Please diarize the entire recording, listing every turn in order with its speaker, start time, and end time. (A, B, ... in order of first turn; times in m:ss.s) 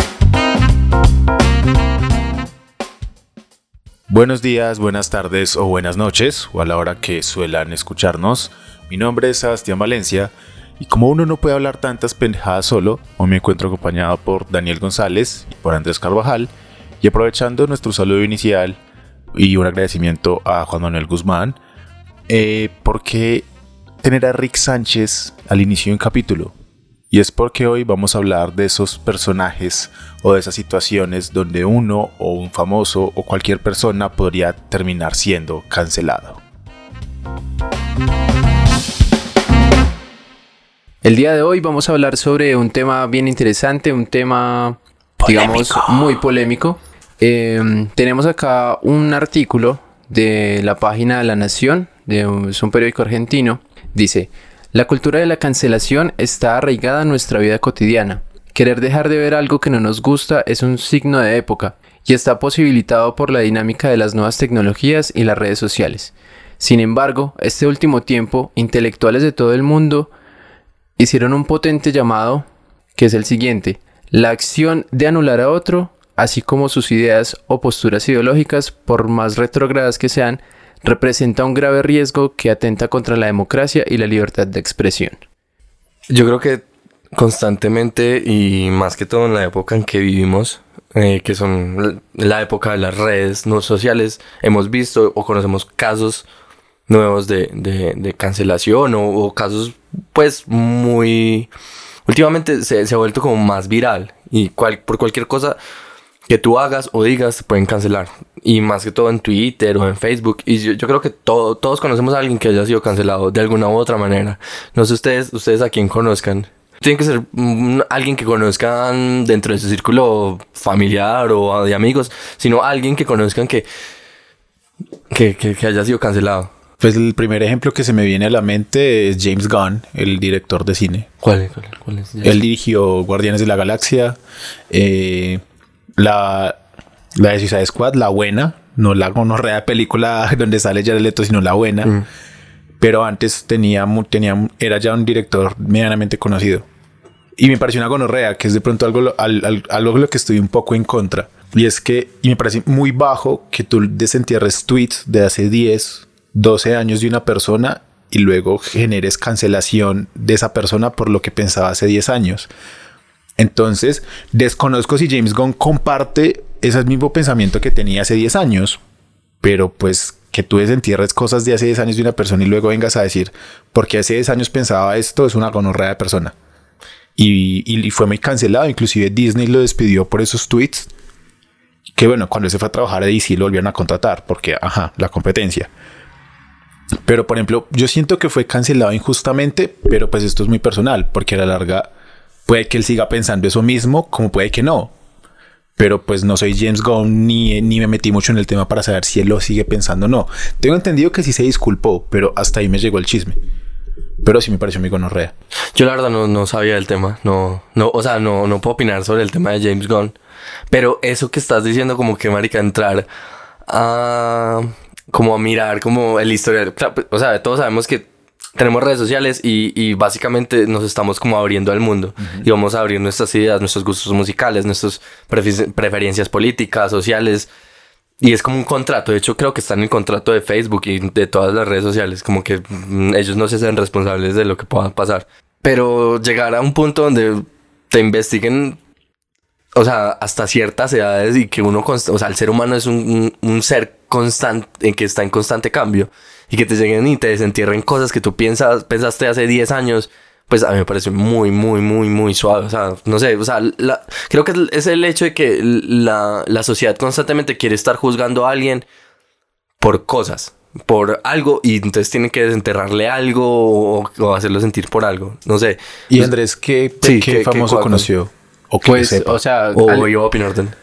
0:04.1-0:16.5 A
0:17.0-0:18.8 A
0:19.3-0:21.6 A
0:22.3-0:23.5 A
0:24.0-0:26.5 A
0:27.1-0:36.4 A
0:41.0-1:10.1 B
0:45.2-0:46.2 A
1:11.0-1:25.2 B
1:26.1-1:36.2 C
1:36.9-1:41.5 C
1:42.1-1:45.6 C
1:46.3-2:03.6 C
2:05.1-2:06.5 C
2:06.8-2:11.1 A
2:11.2-2:12.4 C
2:12.2-2:14.2 A
2:14.7-2:15.4 A
2:16.0-2:16.6 A
2:17.2-2:21.9 A
2:22.8-2:26.6 A
2:27.4-2:42.5 A
2:43.4-2:48.8 A
2:49.4-2:56.3 A
2:57.2-3:00.9 A
3:01.9-3:05.7 A
3:07.0-3:11.9 A
3:12.4-3:14.9 A
3:15.8-3:23.4 A
3:24.2-3:25.3 A
3:25.7-3:30.1 C
3:30.7-3:33.1 C
3:33.6-3:47.5 C
3:42.2-3:42.4 A
3:48.2-3:58.8 C
3:59.7-4:18.8 C
4:19.8-4:26.3 C
4:26.1-4:29.4 A
4:27.0-4:28.1 C
4:28.8-4:30.1 B
4:29.7-4:30.7 C